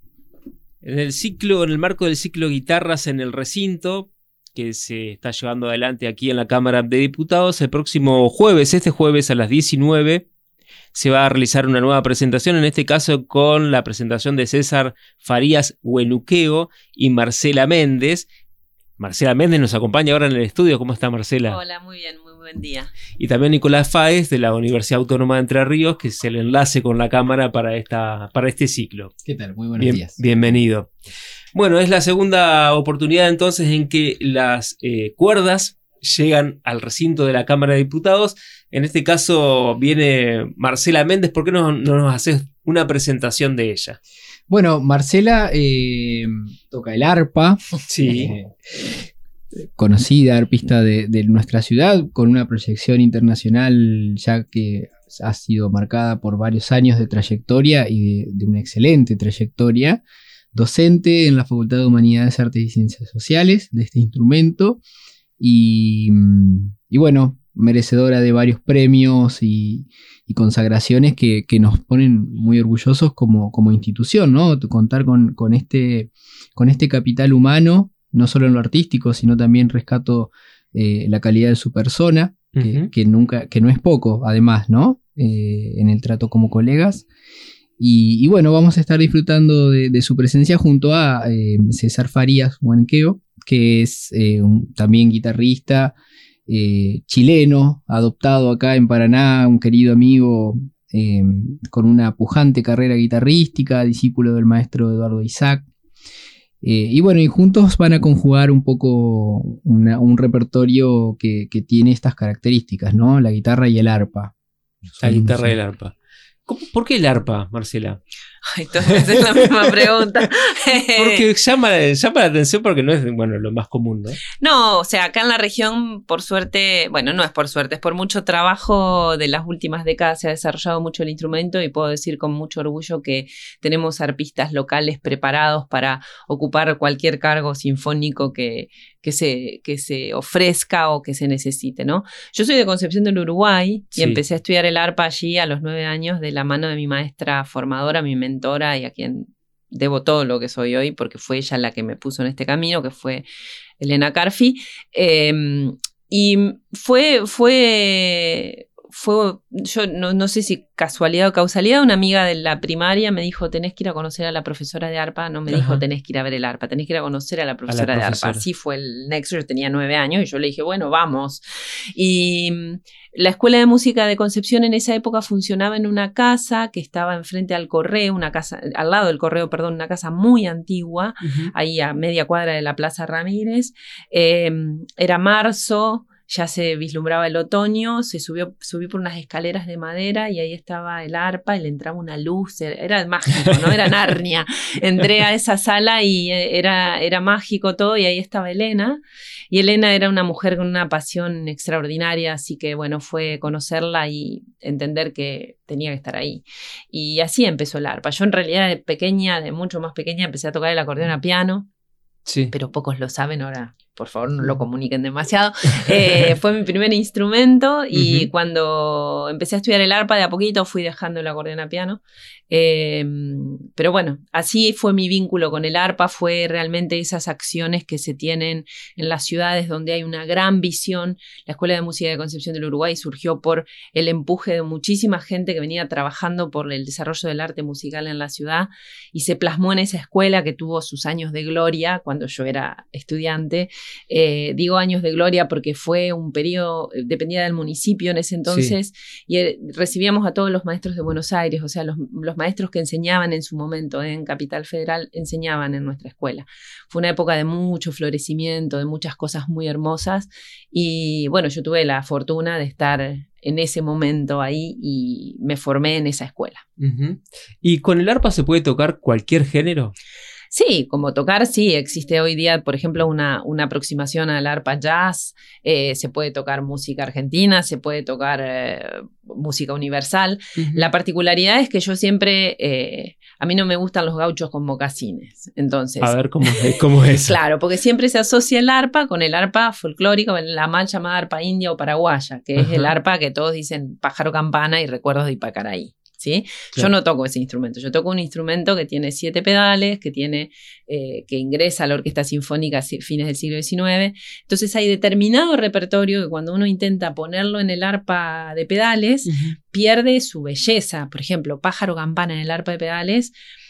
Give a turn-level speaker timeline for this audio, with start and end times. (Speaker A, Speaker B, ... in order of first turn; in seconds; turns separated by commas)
Speaker A: 0.8-10.2, Speaker A: 10.9-18.3, Speaker A: 19.0-21.6, Speaker B: 21.5-22.9, Speaker A: 23.2-29.1, Speaker C: 29.2-30.2, Speaker A: 29.8-30.9, Speaker A: 31.5-44.0, Speaker C: 44.5-48.5, Speaker A: 47.9-48.3, Speaker C: 49.8-60.0, Speaker C: 60.5-64.8, Speaker C: 65.4-87.1, Speaker A: 82.5-82.9, Speaker C: 87.8-96.0, Speaker C: 96.5-105.7, Speaker C: 106.6-114.3, Speaker C: 114.9-115.5, Speaker A: 115.0-115.9, Speaker A: 116.5-118.0, Speaker B: 118.5-121.2, Speaker A: 118.9-119.5, Speaker A: 121.0-124.2, Speaker B: 124.4-153.2, Speaker B: 153.8-199.0, Speaker A: 165.5-165.8, Speaker A: 167.7-168.4, Speaker A: 181.2-181.5, Speaker B: 199.5-211.7, Speaker A: 212.2-212.5, Speaker B: 212.5-266.6, Speaker A: 217.9-218.3, Speaker A: 248.5-248.7, Speaker A: 266.8-269.9, Speaker B: 270.5-313.3, Speaker A: 280.6-280.9, Speaker A: 286.0-287.4, Speaker A: 292.6-292.9, Speaker A: 309.2-309.6